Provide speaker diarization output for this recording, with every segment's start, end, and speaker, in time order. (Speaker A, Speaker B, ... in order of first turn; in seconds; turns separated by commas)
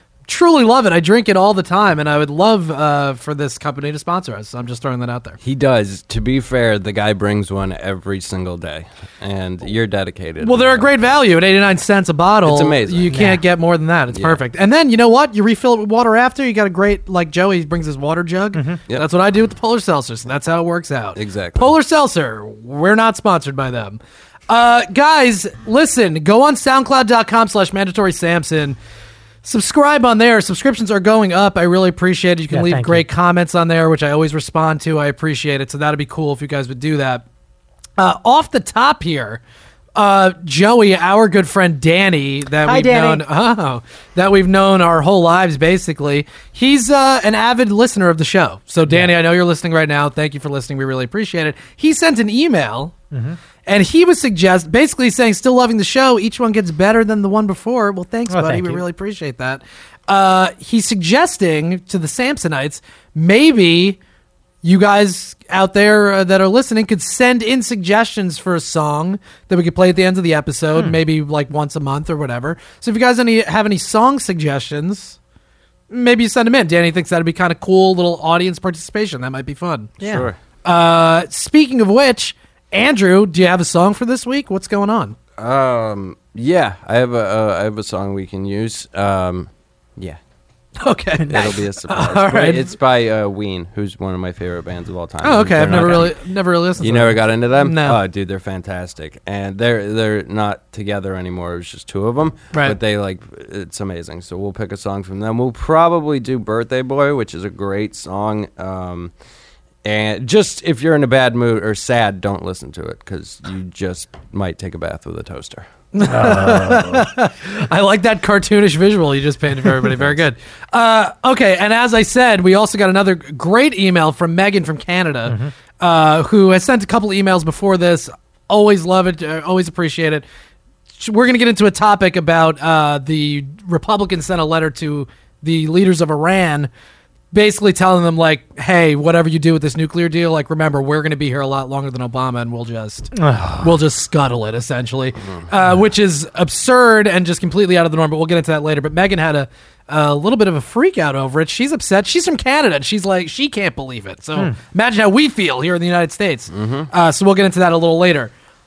Speaker A: 0.3-5.4, Speaker B: 5.4-10.9, Speaker A: 10.4-28.8, Speaker B: 12.4-13.2, Speaker C: 13.1-13.4, Speaker B: 14.1-14.4, Speaker C: 18.5-18.8, Speaker B: 21.1-21.7, Speaker A: 29.4-37.2, Speaker C: 32.5-33.1, Speaker A: 38.0-39.4, Speaker A: 40.0-52.9, Speaker C: 42.6-43.2, Speaker C: 48.9-49.1, Speaker C: 53.1-53.4, Speaker A: 53.6-64.0, Speaker C: 58.3-58.8, Speaker A: 64.6-75.2, Speaker A: 75.9-80.0, Speaker B: 80.0-80.4, Speaker C: 80.0-80.3, Speaker A: 80.6-85.2, Speaker B: 85.4-90.2, Speaker A: 90.8-92.7, Speaker C: 91.2-91.5, Speaker B: 91.3-96.2, Speaker A: 95.2-98.0, Speaker B: 96.8-109.1, Speaker B: 109.8-115.7, Speaker A: 115.9-130.2, Speaker C: 116.0-117.1, Speaker C: 125.3-125.5, Speaker A: 131.0-136.7, Speaker A: 137.3-158.3, Speaker C: 143.2-143.7, Speaker B: 156.5-156.9